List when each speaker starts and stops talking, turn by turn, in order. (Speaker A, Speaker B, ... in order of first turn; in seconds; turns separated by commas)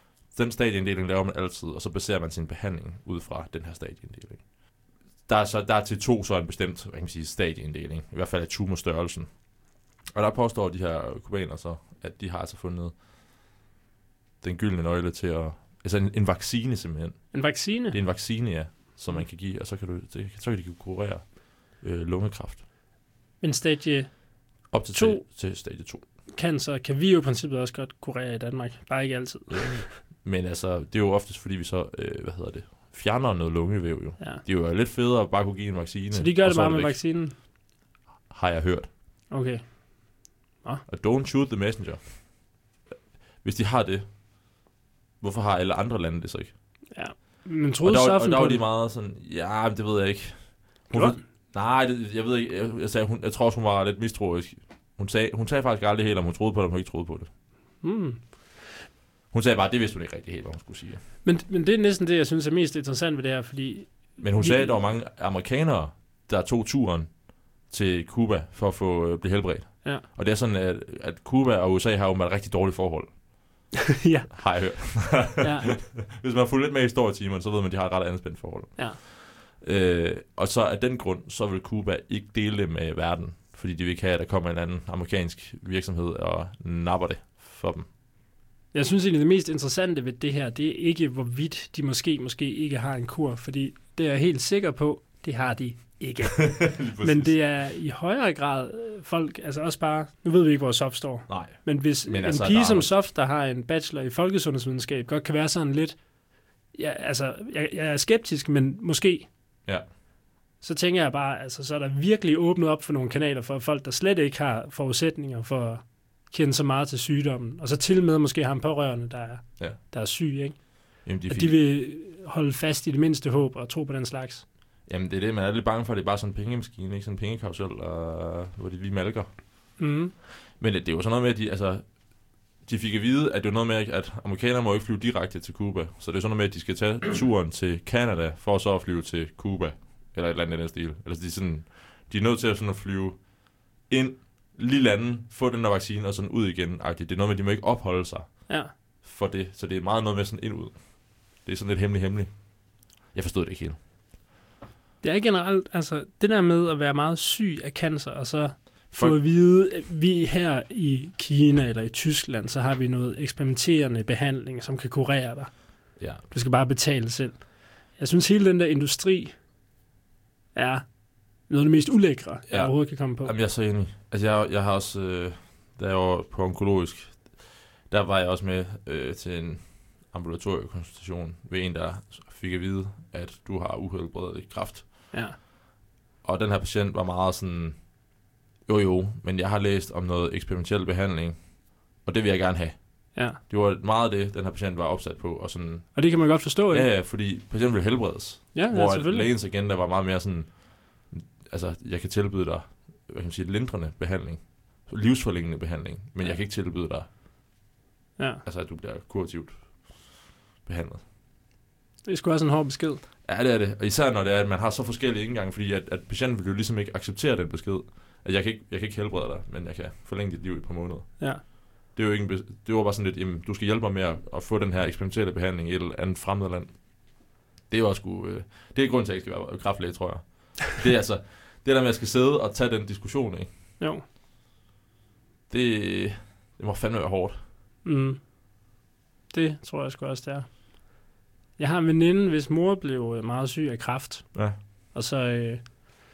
Speaker A: 0.3-4.5, Speaker A: 5.2-9.4, Speaker A: 10.1-13.0, Speaker A: 14.4-22.6, Speaker B: 17.3-18.0, Speaker B: 23.4-25.2, Speaker A: 24.7-26.0, Speaker B: 26.4-30.0, Speaker A: 29.5-37.0, Speaker B: 36.1-37.4, Speaker A: 38.3-38.9, Speaker B: 39.3-40.8, Speaker A: 40.9-42.5, Speaker A: 43.4-44.0, Speaker A: 45.2-46.5, Speaker B: 46.9-48.6, Speaker A: 47.8-57.3, Speaker B: 50.9-51.2, Speaker B: 57.8-58.7, Speaker A: 59.3-61.0, Speaker B: 61.2-64.8, Speaker A: 64.2-73.2, Speaker B: 74.0-75.8, Speaker A: 74.3-87.9, Speaker B: 88.7-106.0, Speaker A: 96.4-97.4, Speaker A: 101.3-102.9, Speaker B: 106.7-109.3, Speaker B: 110.6-124.5, Speaker A: 121.0-121.6, Speaker A: 124.9-129.4, Speaker B: 129.8-130.2, Speaker A: 130.5-132.0, Speaker A: 132.6-153.8, Speaker B: 155.0-169.3, Speaker A: 158.9-159.2, Speaker A: 166.0-166.3, Speaker B: 170.5-173.3, Speaker A: 172.5-185.1, Speaker B: 185.1-185.4, Speaker A: 186.2-187.9, Speaker A: 188.7-207.1, Speaker B: 195.9-196.9, Speaker B: 198.5-199.3, Speaker B: 208.2-208.4, Speaker A: 208.4-211.0, Speaker B: 212.1-213.0, Speaker A: 213.2-227.0, Speaker A: 227.7-233.5, Speaker A: 235.5-237.4, Speaker B: 237.8-238.2, Speaker B: 239.3-240.6, Speaker B: 241.6-245.8